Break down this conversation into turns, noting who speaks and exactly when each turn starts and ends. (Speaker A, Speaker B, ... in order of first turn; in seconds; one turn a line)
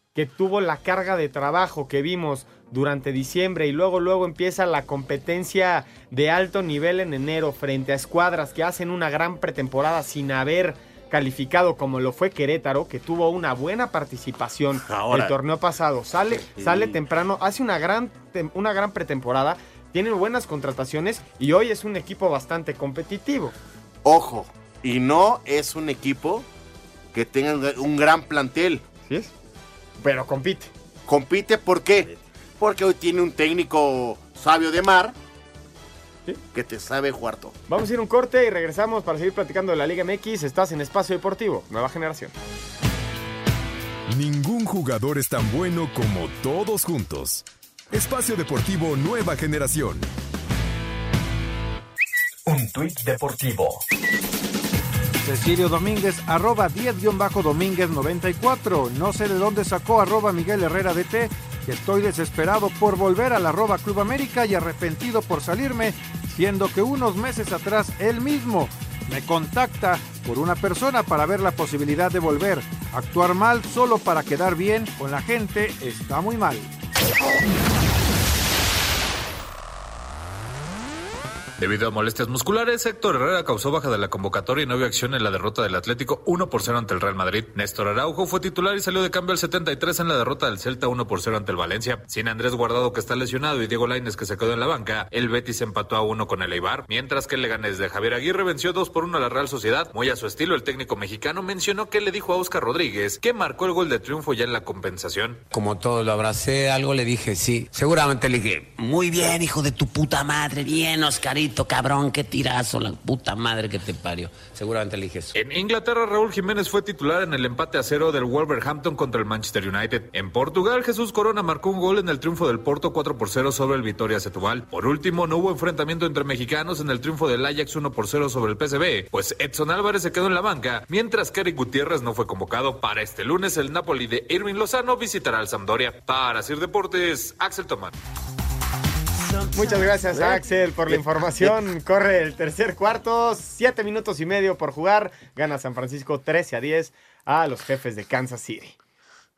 Speaker A: 0.1-23.5
Speaker B: 14.8-15.3
Speaker B: 16.5-17.0
Speaker B: 24.0-26.4
Speaker B: 27.1-28.8
Speaker A: 29.0-29.3
Speaker A: 30.0-30.7
Speaker B: 31.1-35.1
Speaker B: 36.5-37.6
Speaker A: 37.7-42.3
Speaker C: 44.1-50.1
Speaker D: 52.5-53.8
Speaker E: 55.2-76.7
Speaker F: 81.6-105.4
Speaker D: 105.5-115.3
Speaker F: 115.3-137.9
Speaker A: 139.5-148.8
Speaker B: 140.1-141.6